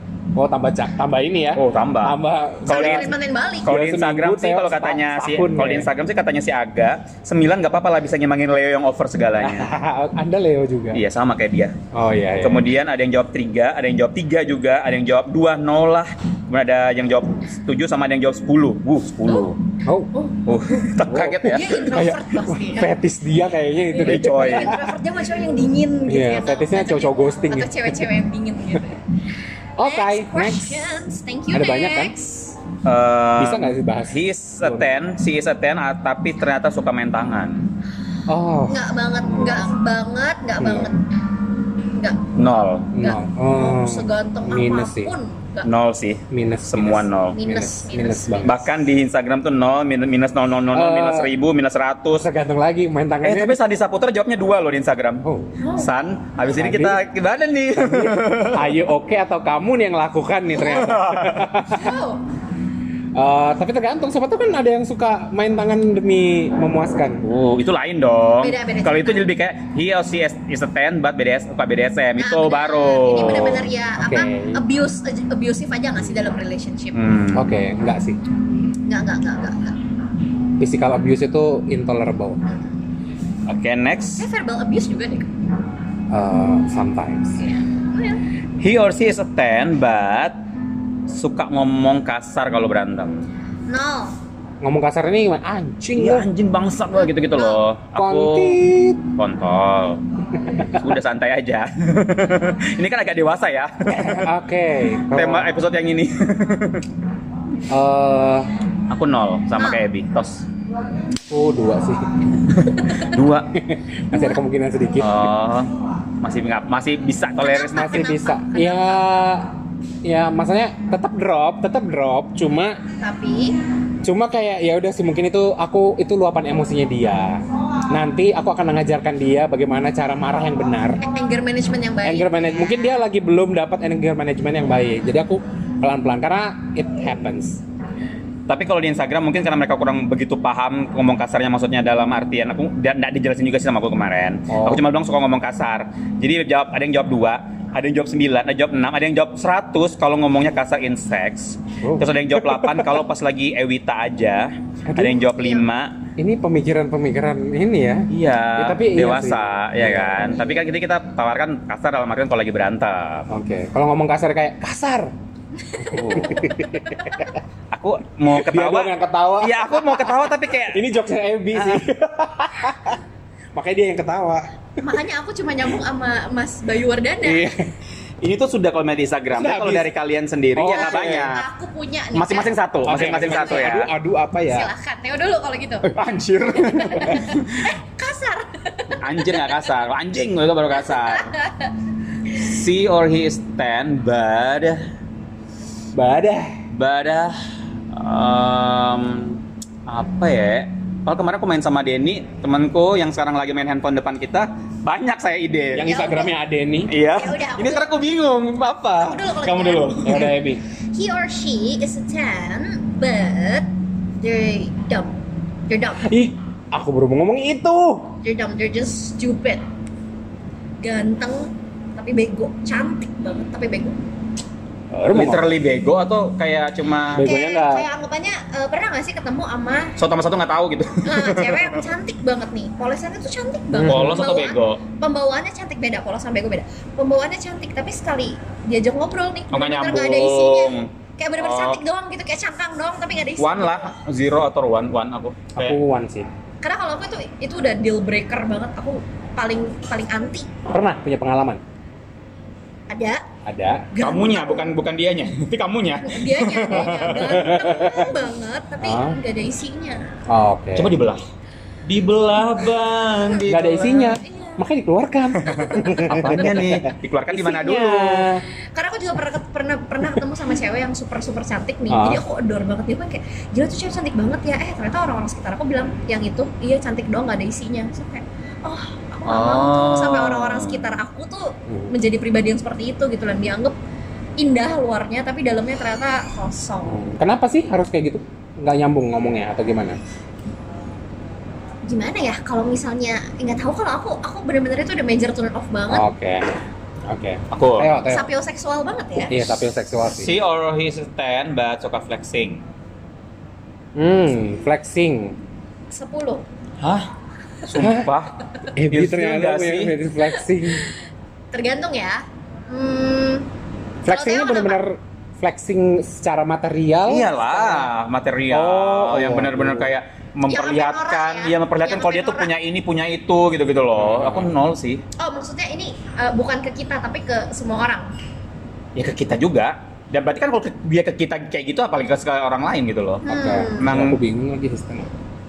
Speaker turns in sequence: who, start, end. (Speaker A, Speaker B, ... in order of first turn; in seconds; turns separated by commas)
Speaker A: 0.3-3.1, Speaker B: 1.5-3.1, Speaker C: 2.6-3.7, Speaker B: 3.6-9.7, Speaker A: 3.6-5.9, Speaker A: 9.4-11.0, Speaker B: 10.9-11.7, Speaker A: 11.9-12.6, Speaker B: 12.4-19.6, Speaker C: 19.3-19.5, Speaker A: 19.8-20.1, Speaker C: 20.1-20.9, Speaker B: 20.4-22.0, Speaker A: 21.0-24.8, Speaker C: 21.4-22.9, Speaker C: 23.9-29.0, Speaker B: 24.0-24.8, Speaker A: 26.1-27.9, Speaker A: 29.8-30.9, Speaker C: 29.8-32.5, Speaker A: 31.5-32.1, Speaker B: 32.8-37.7, Speaker A: 33.4-35.0, Speaker A: 38.3-39.7, Speaker C: 38.7-41.1, Speaker A: 40.6-40.9, Speaker C: 41.9-42.3, Speaker B: 42.4-42.9, Speaker A: 42.9-45.1, Speaker C: 43.0-45.7, Speaker B: 45.6-47.4, Speaker A: 46.3-48.6, Speaker C: 47.3-48.5, Speaker B: 48.4-52.2, Speaker A: 50.7-51.3, Speaker A: 52.1-53.6, Speaker B: 53.2-55.2, Speaker A: 55.2-55.5, Speaker C: 55.6-55.9, Speaker B: 55.8-58.8, Speaker A: 56.5-57.0, Speaker A: 57.8-61.9, Speaker B: 60.6-61.6, Speaker C: 61.7-62.2, Speaker A: 63.1-67.2, Speaker B: 67.2-73.7, Speaker C: 68.4-69.3, Speaker C: 72.2-77.1, Speaker A: 74.0-74.6, Speaker B: 76.9-77.6, Speaker A: 77.3-78.2, Speaker C: 78.8-79.8, Speaker A: 80.6-82.4, Speaker C: 82.4-82.8, Speaker B: 83.5-84.3, Speaker C: 84.2-85.3, Speaker A: 86.1-87.4, Speaker C: 87.4-88.2, Speaker B: 88.6-90.4, Speaker B: 91.1-93.2, Speaker C: 93.7-94.1, Speaker A: 94.6-96.3, Speaker B: 95.9-98.6, Speaker C: 97.0-97.6, Speaker A: 98.0-99.1, Speaker B: 99.2-100.0, Speaker A: 100.5-100.8, Speaker B: 100.7-104.3, Speaker A: 103.9-105.5, Speaker B: 105.1-106.9, Speaker A: 107.7-108.5, Speaker B: 108.9-110.5, Speaker C: 109.6-109.8, Speaker A: 111.3-112.1, Speaker C: 112.8-113.0, Speaker B: 112.9-113.5, Speaker A: 113.5-115.3, Speaker C: 114.1-114.4, Speaker B: 115.0-117.9, Speaker C: 117.4-119.0, Speaker A: 117.7-119.5, Speaker A: 120.0-122.8, Speaker C: 123.0-123.6, Speaker A: 124.0-131.0, Speaker C: 131.0-132.9, Speaker A: 132.0-137.6, Speaker B: 138.5-156.0, Speaker A: 144.5-144.8, Speaker A: 151.8-153.0, Speaker A: 154.9-155.2, Speaker C: 155.3-155.6, Speaker A: 156.2-160.4, Speaker B: 158.1-163.3, Speaker A: 163.3-165.1, Speaker C: 165.7-167.2, Speaker A: 165.8-167.3, Speaker B: 165.9-166.3, Speaker B: 167.7-170.8, Speaker A: 168.3-173.0, Speaker B: 171.5-171.9, Speaker A: 173.6-174.5, Speaker C: 174.8-177.5, Speaker A: 177.2-177.7, Speaker B: 178.2-181.4, Speaker A: 179.3-179.9, Speaker A: 180.5-181.3, Speaker C: 180.7-183.8, Speaker B: 182.1-183.9, Speaker A: 182.8-184.7, Speaker C: 184.5-185.9, Speaker B: 185.8-187.7, Speaker C: 186.6-189.7, Speaker B: 189.0-191.3, Speaker C: 190.8-191.7, Speaker B: 192.3-194.8, Speaker A: 195.9-196.6, Speaker B: 196.7-197.4, Speaker B: 197.9-205.9, Speaker A: 205.7-206.9, Speaker C: 205.8-206.3, Speaker B: 206.9-210.3, Speaker C: 207.1-207.9, Speaker C: 209.0-210.2, Speaker A: 209.9-210.6, Speaker C: 210.9-213.7, Speaker C: 214.2-215.1, Speaker C: 215.7-216.1, Speaker A: 216.0-218.2, Speaker C: 218.2-219.6, Speaker C: 220.8-224.0, Speaker A: 224.9-225.5, Speaker B: 225.1-227.3, Speaker A: 227.1-227.8, Speaker C: 227.2-229.9, Speaker B: 230.0-231.8, Speaker C: 231.0-243.9, Speaker A: 233.7-234.2, Speaker B: 233.8-234.8, Speaker B: 239.5-241.8, Speaker B: 243.4-245.8, Speaker A: 245.5-246.3, Speaker C: 246.6-250.5, Speaker A: 250.7-251.6, Speaker C: 252.9-253.2, Speaker A: 253.4-253.9, Speaker C: 253.9-254.7, Speaker B: 254.0-257.4, Speaker C: 256.0-260.1, Speaker A: 257.2-258.1, Speaker A: 258.8-259.2, Speaker A: 260.3-260.9, Speaker B: 260.7-261.2, Speaker B: 261.9-264.2, Speaker A: 263.5-268.4, Speaker C: 264.2-264.6, Speaker C: 265.5-266.1, Speaker B: 266.1-268.3, Speaker C: 268.7-283.7, Speaker A: 271.9-272.2, Speaker B: 279.2-281.0, Speaker C: 284.4-287.0, Speaker A: 286.9-290.0, Speaker C: 291.9-296.0, Speaker A: 295.9-296.5, Speaker A: 297.1-298.3, Speaker B: 297.5-297.9, Speaker C: 298.1-299.3, Speaker A: 299.3-300.3, Speaker B: 300.1-302.6, Speaker A: 303.9-305.4, Speaker C: 305.9-306.4, Speaker B: 306.8-307.1, Speaker B: 307.6-308.4, Speaker A: 307.8-308.1, Speaker A: 308.8-310.9, Speaker B: 308.9-309.9, Speaker C: 310.7-310.9, Speaker C: 311.5-313.5, Speaker A: 314.0-317.9, Speaker C: 314.1-314.8, Speaker B: 317.1-325.0, Speaker A: 318.5-319.9, Speaker C: 320.5-322.5, Speaker A: 323.9-324.5, Speaker C: 325.2-328.1, Speaker B: 328.9-334.2, Speaker C: 333.2-333.9, Speaker A: 333.3-335.1